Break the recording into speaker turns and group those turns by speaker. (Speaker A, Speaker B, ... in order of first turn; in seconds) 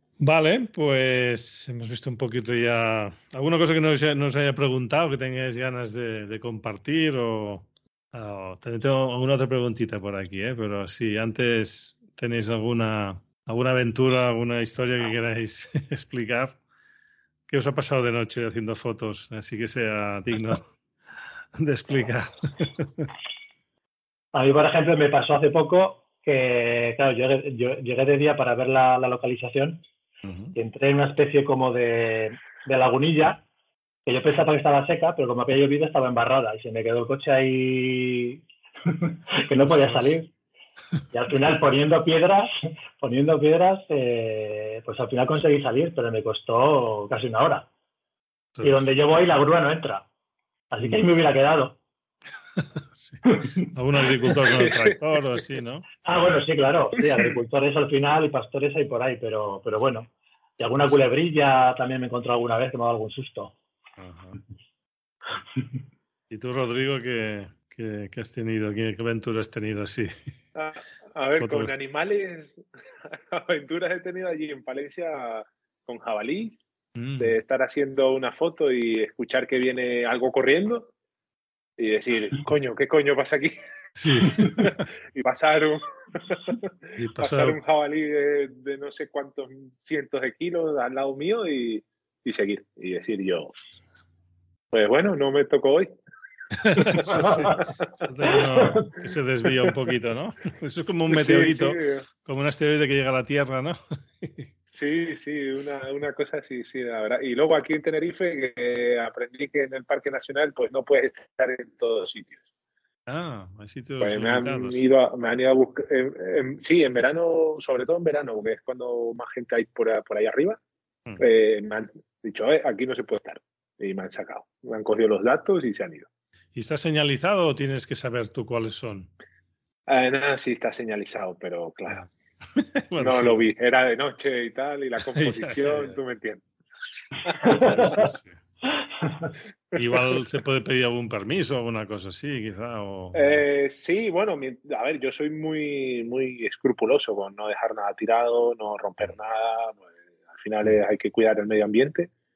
Speaker A: 0.2-16.6, 17.5-20.6, 21.5-23.1, 30.2-30.5, 39.6-40.1, 48.5-48.9, 52.5-55.9, 64.0-64.4, 66.3-70.1, 71.4-71.7, 77.0-77.4, 84.0-84.8, 87.0-87.6, 96.5-104.5, 113.1-114.8, 126.5-129.1, 132.6-133.4, 135.1-136.0, 137.5-138.4, 139.7-143.5
Speaker B: 24.3-29.8, 30.5-33.4, 34.0-40.3, 41.1-47.7, 48.6-50.0, 50.7-51.8, 53.3-53.7, 56.0-63.5, 96.9-97.6, 98.6-98.9
Speaker C: 54.5-55.0, 70.5-76.6, 77.2-80.9, 81.8-83.5, 84.2-93.6, 94.7-95.9, 96.9-98.0, 101.1-102.0, 104.7-112.4, 114.0-120.6, 121.2-126.1, 129.9-132.1, 133.0-136.4, 137.2-138.0, 143.1-152.1